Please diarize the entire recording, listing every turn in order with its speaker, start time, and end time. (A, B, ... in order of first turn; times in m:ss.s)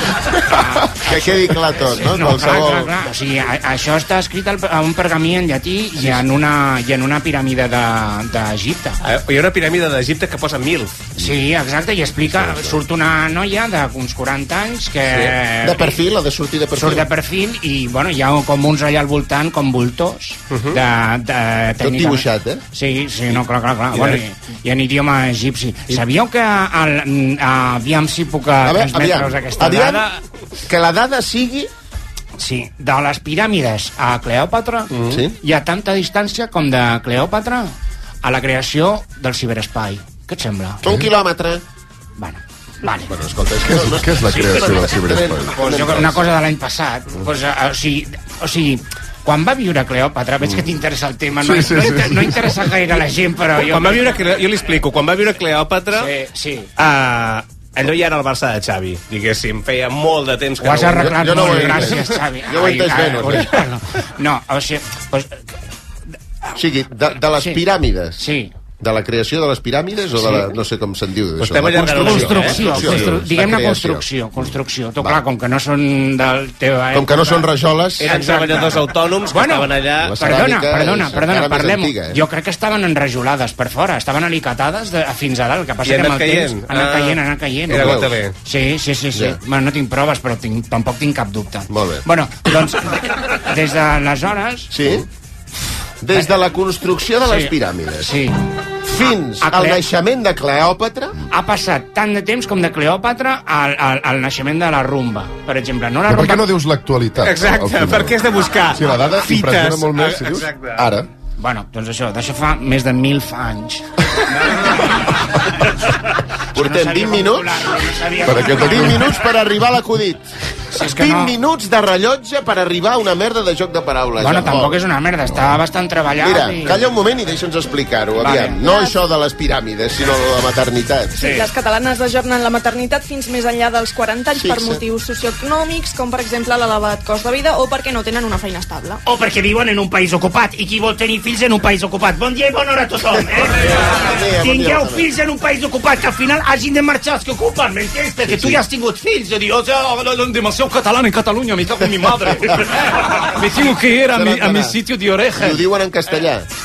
0:00.4-0:09.0 A
0:00.9-0:02.9 B
0:09.0-0:11.1 C
0:11.2-0:16.0 A
0:12.3-0:12.8 B
0:15.6-0:17.1 B
0:16.8-0:30.2 A
0:20.5-0:20.8 C
0:21.8-0:22.6 B
0:23.9-0:24.2 C
0:28.6-0:30.1 B
0:30.6-0:31.7 B
0:32.4-0:40.9 A
0:35.0-0:35.4 B
0:40.8-0:41.6 B
0:42.2-0:43.1 A
0:43.1-0:46.3 B
0:43.6-0:45.6 D
0:45.5-0:54.2 A
0:51.4-0:52.6 D
0:53.6-0:56.1 C
0:55.9-0:56.7 A
0:56.8-1:01.9 C
1:00.6-1:05.4 A
1:01.2-1:03.5 B
1:06.6-1:08.2 B
1:07.3-1:07.6 A
1:08.2-1:08.5 A
1:08.8-1:14.1 B
1:11.4-1:13.2 C
1:11.9-1:17.5 A
1:16.9-1:18.2 B
1:18.0-1:20.2 C
1:18.0-1:34.8 A
1:20.0-1:22.2 B
1:25.8-1:28.3 C
1:27.7-1:28.2 B
1:31.7-1:32.0 B
1:34.7-1:35.1 B
1:36.0-1:38.2 B
1:37.3-1:38.4 A
1:38.9-1:41.2 B
1:39.4-1:39.8 A
1:41.3-1:46.4 A
1:46.1-1:48.2 D
1:47.2-1:50.9 C
1:48.7-1:51.1 D
1:51.4-1:53.9 A
1:54.4-1:55.1 A
1:56.6-1:57.7 B
1:56.6-1:59.1 A
1:58.2-1:59.1 D
1:58.4-2:04.8 B
2:00.7-2:01.4 A
2:04.2-2:06.9 A
2:06.2-2:11.2 B
2:08.2-2:08.6 A
2:08.6-2:09.0 E
2:11.2-2:11.5 F
2:11.2-2:19.0 E
2:14.4-2:14.8 B
2:19.1-2:23.5 A
2:23.1-2:25.1 B
2:24.4-2:29.5 A
2:27.0-2:35.6 F
2:28.2-2:28.6 B
2:34.0-2:34.8 B
2:35.4-2:36.5 B